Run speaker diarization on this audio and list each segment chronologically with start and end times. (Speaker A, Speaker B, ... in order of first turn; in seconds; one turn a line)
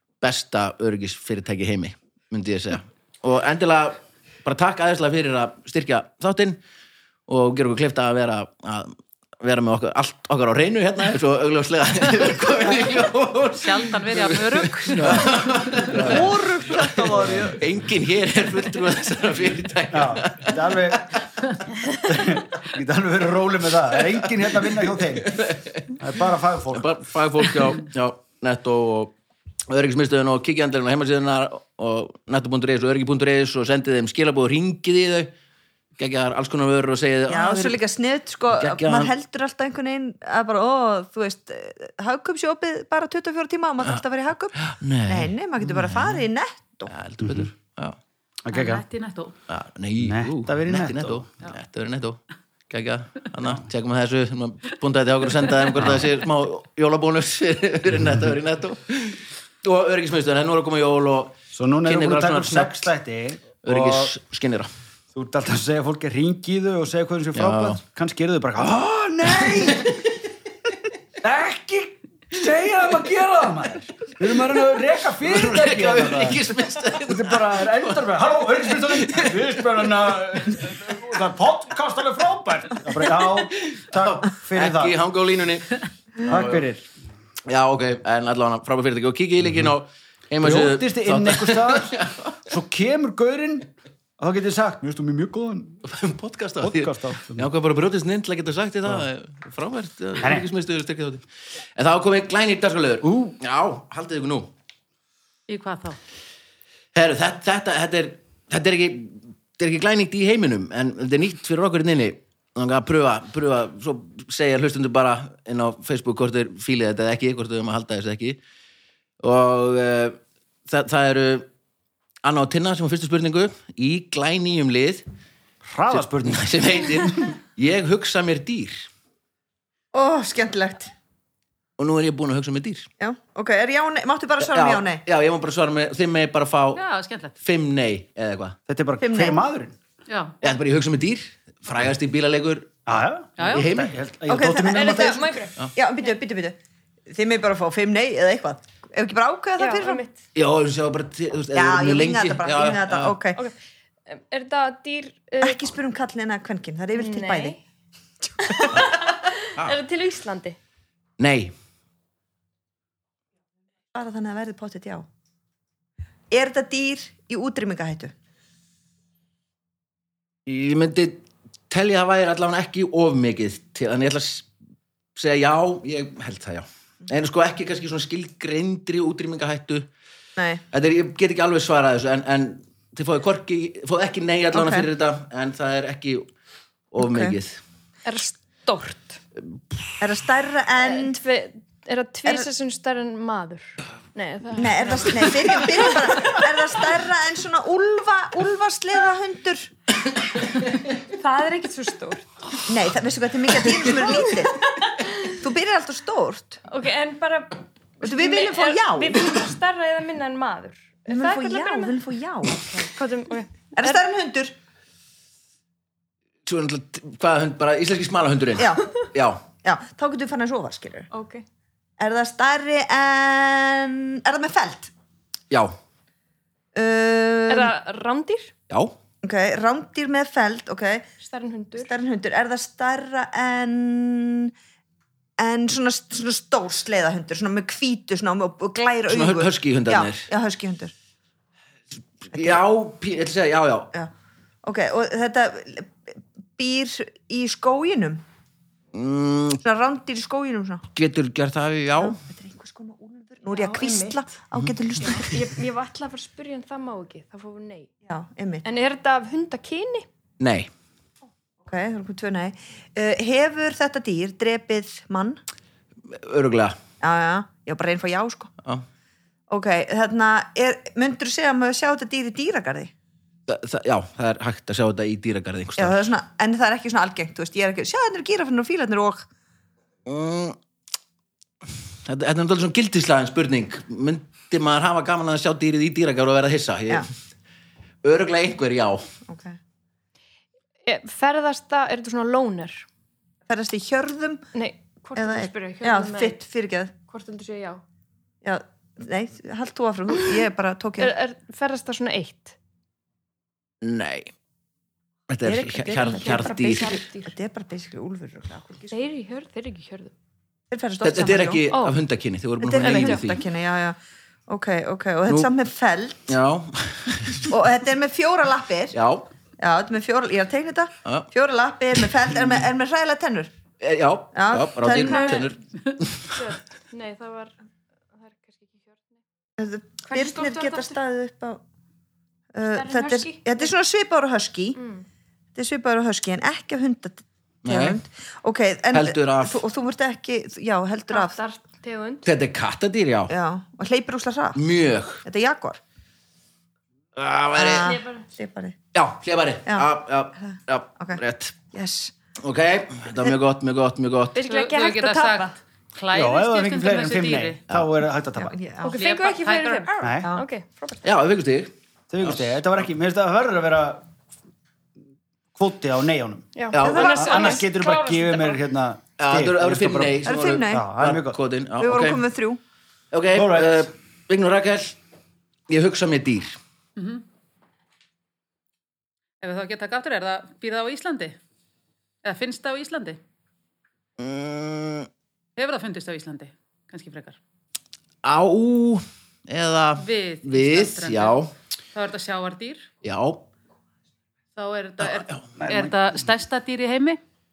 Speaker A: 0.2-6.6
Speaker A: 7.3-21.5
Speaker B: 13.6-16.1
Speaker C: 14.9-17.6
Speaker C: 19.9-21.1
Speaker C: 22.0-26.9
Speaker A: 25.2-25.9
Speaker A: 26.7-29.1
Speaker A: 29.7-35.3
Speaker A: 36.0-37.8
Speaker D: 37.3-46.9
Speaker A: 38.5-39.1
Speaker A: 44.5-45.3
Speaker C: 45.6-46.1
Speaker A: 46.9-48.0
Speaker C: 47.2-47.5
Speaker C: 48.4-48.8
Speaker B: 48.5-49.3
Speaker A: 49.5-62.9
Speaker C: 50.0-51.3
Speaker C: 58.0-58.3
Speaker C: 61.5-64.1
Speaker A: 63.6-64.7
Speaker C: 65.1-70.0
Speaker A: 67.3-67.8
Speaker A: 68.6-70.0
Speaker C: 71.2-76.4
Speaker A: 75.2-78.0
Speaker C: 77.0-84.9
Speaker A: 78.6-79.6
Speaker A: 83.6-86.7
Speaker C: 86.2-86.9
Speaker A: 87.5-92.3
Speaker C: 90.4-95.8
Speaker A: 95.8-104.5
Speaker C: 96.6-97.5
Speaker C: 100.2-100.5
Speaker C: 103.0-103.3
Speaker B: 105.5-106.0
Speaker A: 106.9-118.4
Speaker A: 119.2-121.5
Speaker A: 122.2-125.0
Speaker C: 125.6-127.2
Speaker A: 125.9-128.9
Speaker D: 129.9-130.9
Speaker A: 131.8-132.9
Speaker D: 133.0-135.0
Speaker A: 134.4-136.8
Speaker B: 136.8-137.3
Speaker A: 137.4-138.6
Speaker C: 138.7-139.7
Speaker D: 139.0-139.4
Speaker B: 140.1-140.3
Speaker A: 140.4-142.8
Speaker C: 142.8-145.3
Speaker B: 143.4-143.7
Speaker A: 143.4-144.0
Speaker D: 144.3-146.6
Speaker E: 144.7-145.7
Speaker D: 147.1-150.0
Speaker E: 149.6-150.2
Speaker A: 150.3-153.2
Speaker D: 151.5-153.4
Speaker E: 154.1-155.6
Speaker D: 155.4-157.6
Speaker E: 156.9-157.6
Speaker D: 158.2-158.8
Speaker E: 158.5-160.6
Speaker A: 161.2-161.5
Speaker D: 163.9-165.1
Speaker D: 166.3-168.1
Speaker A: 170.4-174.5
Speaker A: 175.1-179.9
Speaker D: 180.4-180.6
Speaker A: 180.7-186.3
Speaker D: 184.5-184.9
Speaker A: 186.9-187.6
Speaker D: 187.0-187.3
Speaker E: 188.0-189.2
Speaker A: 189.5-190.0
Speaker D: 190.0-191.2
Speaker E: 190.8-196.4
Speaker D: 194.5-199.7
Speaker E: 200.9-202.3
Speaker D: 202.7-204.6
Speaker E: 205.0-205.2
Speaker D: 205.2-206.6
Speaker E: 206.7-212.0
Speaker D: 208.0-209.2
Speaker D: 211.1-212.7
Speaker E: 212.5-214.0
Speaker D: 213.8-214.5
Speaker A: 216.4-219.4
Speaker D: 218.6-218.8
Speaker D: 219.6-221.1
Speaker E: 221.1-221.4
Speaker D: 222.0-224.9
Speaker D: 226.7-227.7
Speaker E: 227.5-228.5
Speaker D: 229.2-231.1
Speaker E: 231.2-231.9
Speaker D: 231.8-234.5
Speaker D: 235.4-240.9
Speaker A: 239.1-240.3
Speaker A: 242.2-243.9
Speaker D: 242.3-242.6
Speaker D: 244.6-248.2
Speaker A: 248.9-249.6
Speaker D: 249.6-250.8
Speaker A: 250.9-252.2
Speaker D: 252.0-255.4
Speaker E: 253.5-254.3
Speaker E: 255.0-257.9
Speaker D: 258.1-258.7
Speaker E: 258.6-260.1
Speaker A: 260.4-260.7
Speaker D: 261.6-265.4
Speaker A: 266.1-266.8
Speaker D: 267.0-268.5
Speaker D: 269.5-272.9
Speaker A: 273.5-276.0
Speaker D: 275.8-279.2
Speaker A: 280.1-280.6
Speaker A: 282.0-287.1
Speaker A: 288.0-289.1
Speaker D: 289.3-289.6
Speaker E: 290.8-292.9
Speaker D: 293.5-294.5
Speaker E: 294.5-296.4
Speaker D: 295.2-296.9
Speaker E: 297.0-297.8
Speaker D: 298.4-301.1
Speaker E: 301.0-302.6
Speaker A: 303.8-304.3
Speaker A: 305.3-307.0
Speaker D: 305.4-308.9
Speaker E: 305.8-307.3
Speaker E: 308.9-310.1
Speaker D: 310.7-311.6
Speaker A: 311.0-313.4
Speaker E: 311.7-311.9
Speaker D: 312.6-316.3
Speaker E: 312.8-313.3
Speaker A: 316.3-317.5
Speaker D: 317.5-318.9
Speaker A: 318.9-319.3
Speaker D: 319.6-323.5
Speaker A: 323.8-326.4
Speaker D: 324.3-325.5
Speaker E: 324.9-325.5
Speaker E: 326.2-327.5
Speaker E: 328.1-329.2
Speaker D: 329.6-331.6
Speaker E: 330.1-331.0
Speaker D: 332.5-334.8
Speaker E: 332.6-333.7
Speaker E: 334.8-335.0
Speaker D: 335.5-341.4
Speaker A: 337.6-338.0
Speaker A: 338.9-339.6
Speaker E: 341.1-342.3
Speaker A: 342.2-343.3
Speaker D: 343.3-344.6
Speaker A: 344.5-345.2
Speaker D: 345.2-345.8
Speaker A: 347.1-348.0
Speaker D: 347.5-348.8
Speaker E: 347.8-348.2
Speaker A: 348.9-351.6
Speaker D: 350.4-351.2
Speaker D: 351.7-352.1
Speaker A: 352.4-354.4
Speaker E: 354.3-355.5
Speaker B: 354.4-357.6
Speaker C: 356.1-358.6
Speaker D: 358.4-359.0
Speaker E: 358.8-361.0
Speaker B: 358.9-359.9
Speaker C: 360.0-360.3
Speaker A: 361.0-362.6
Speaker C: 362.1-364.0
Speaker C: 365.5-366.5
Speaker E: 366.5-368.6
Speaker A: 366.7-367.2
Speaker D: 366.8-367.6
Speaker C: 367.1-371.4
Speaker A: 369.2-372.2
Speaker D: 370.2-370.9
Speaker D: 371.8-372.6
Speaker A: 373.1-375.0
Speaker C: 373.3-373.9
Speaker A: 375.7-376.6
Speaker B: 377.0-377.2
Speaker B: 379.4-381.4
Speaker B: 382.2-383.2
Speaker A: 384.2-385.1
Speaker B: 385.6-387.4
Speaker A: 388.2-391.5
Speaker B: 390.0-391.4
Speaker B: 391.9-392.9
Speaker A: 393.0-393.4
Speaker B: 394.6-397.2
Speaker A: 395.0-395.4
Speaker C: 395.6-396.2